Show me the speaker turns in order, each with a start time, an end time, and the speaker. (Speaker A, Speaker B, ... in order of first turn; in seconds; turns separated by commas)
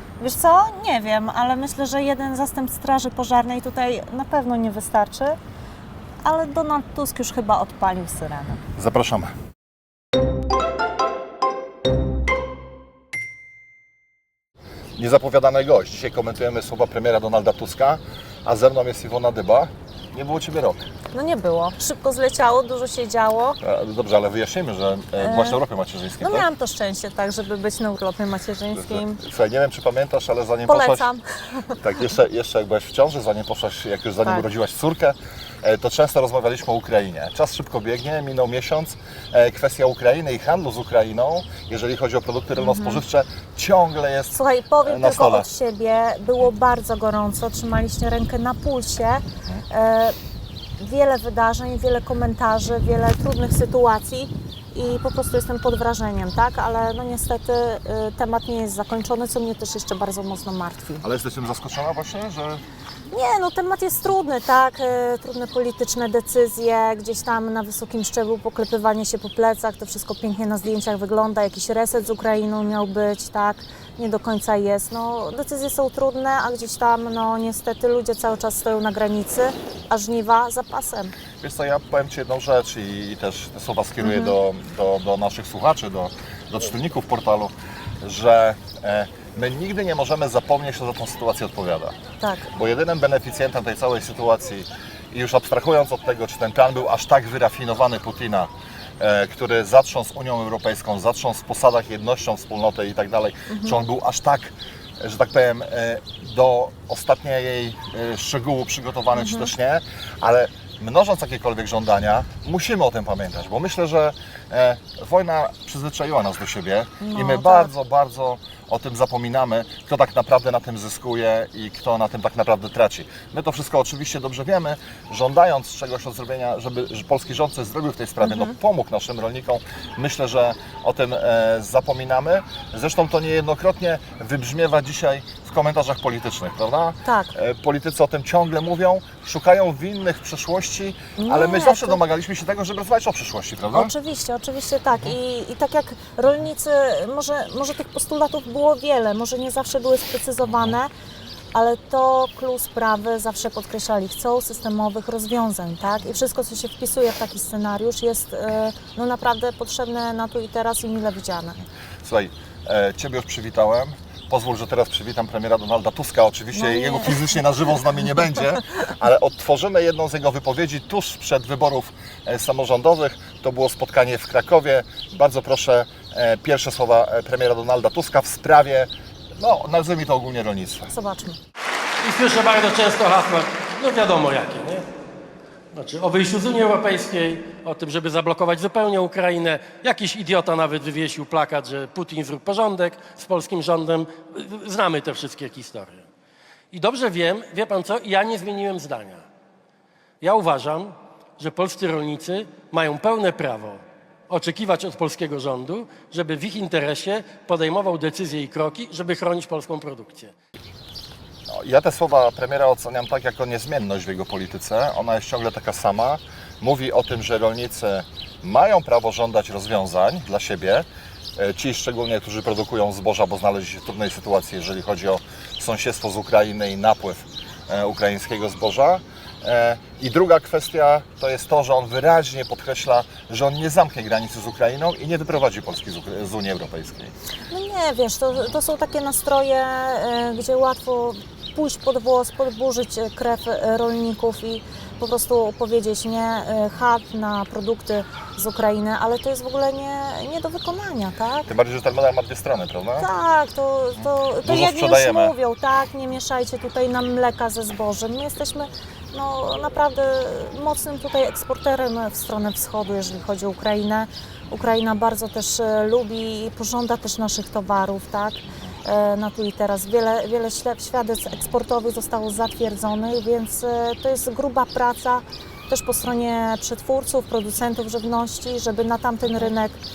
Speaker A: 0.2-5.4, Speaker A: 6.2-8.6, Speaker B: 8.8-9.3, Speaker B: 15.0-20.9, Speaker A: 21.1-23.6, Speaker B: 23.6-26.4, Speaker A: 25.2-25.6, Speaker A: 26.2-29.2, Speaker B: 28.7-31.1, Speaker A: 30.7-31.8, Speaker B: 31.7-45.5, Speaker A: 42.6-43.0, Speaker A: 44.3-50.1, Speaker A: 50.8-61.0, Speaker B: 61.0-62.6, Speaker A: 63.1-81.1, Speaker B: 81.4-91.9, Speaker A: 84.0-84.4, Speaker A: 92.2-92.5, Speaker B: 92.5-143.9, Speaker A: 103.5-103.8, Speaker A: 109.1-109.5, Speaker A: 117.0-117.7, Speaker A: 128.2-128.6, Speaker A: 137.0-137.3, Speaker A: 141.2-142.0, Speaker A: 143.7-150.9, Speaker B: 150.4-150.8, Speaker A: 151.5-161.6, Speaker B: 162.0-180.9, Speaker A: 166.5-167.4, Speaker A: 180.9-181.4, Speaker C: 182.0-184.9, Speaker C: 185.7-196.0, Speaker C: 196.7-199.2, Speaker C: 200.2-210.3, Speaker B: 211.5-220.8, Speaker B: 221.4-237.1, Speaker A: 237.5-251.5, Speaker B: 251.4-253.1, Speaker A: 253.0-279.8, Speaker B: 253.9-255.3, Speaker B: 268.5-268.8